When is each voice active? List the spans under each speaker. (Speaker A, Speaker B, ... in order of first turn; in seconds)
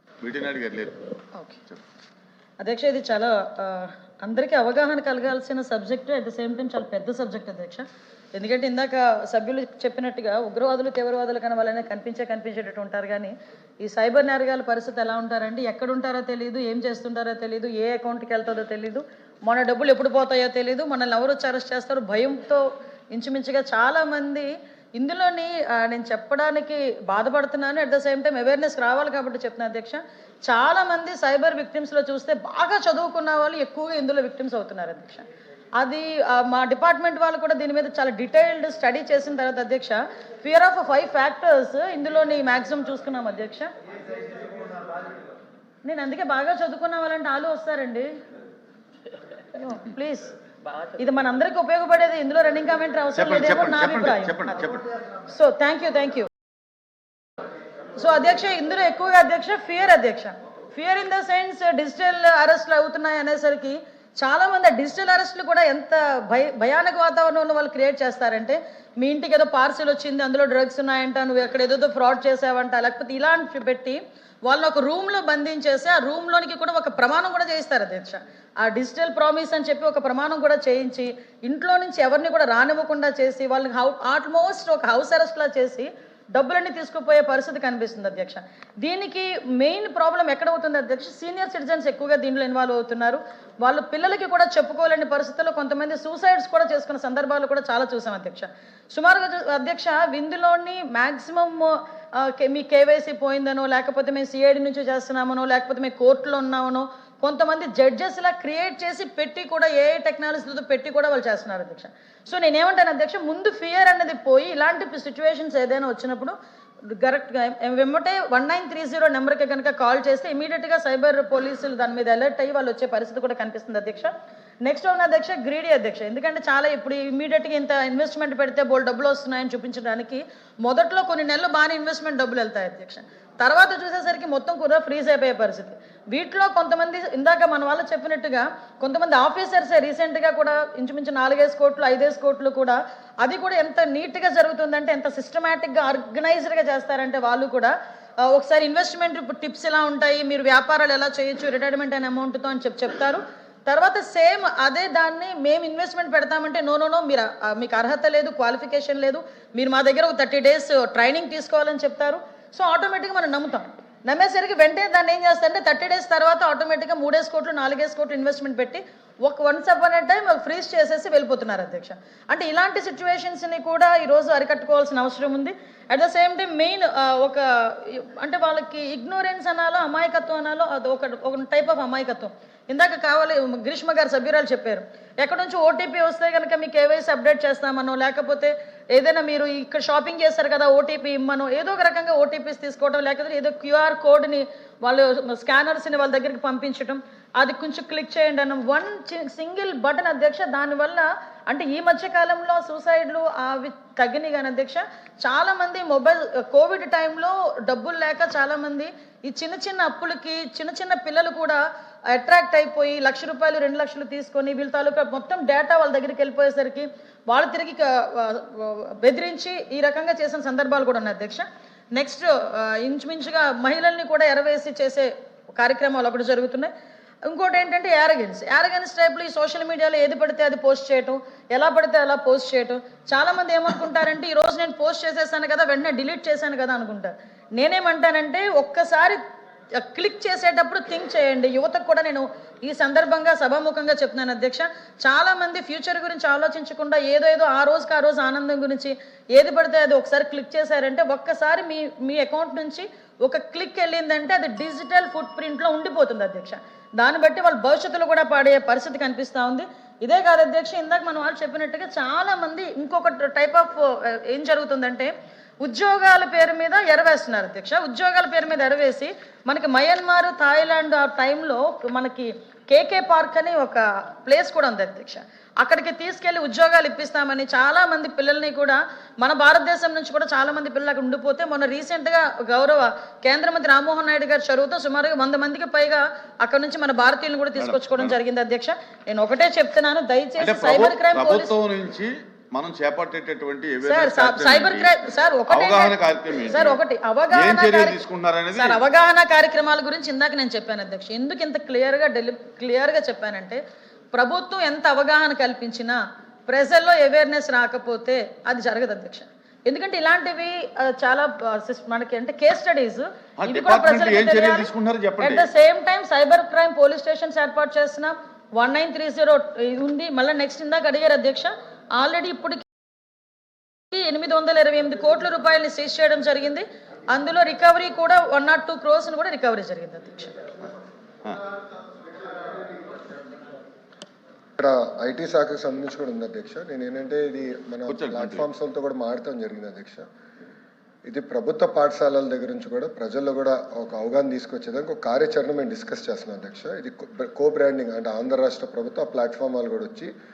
Speaker A: 0.2-1.0, 53.2-54.9, 287.6-288.1, 290.4-294.9, 295.5-296.8, 297.3-298.8, 313.4-315.5, 337.9-338.5
Speaker B: 2.6-35.2, 35.8-43.7, 45.8-48.1, 49.5-50.3, 51.0-54.7, 55.3-56.3, 58.0-116.3, 117.0-124.1, 124.6-147.7, 148.3-211.6, 212.1-226.7, 227.3-239.2, 239.8-265.1, 265.6-291.5, 293.8-298.0, 298.5-303.6, 304.1-322.6, 323.9-330.3
Speaker C: 334.6-340.1, 341.1-350.1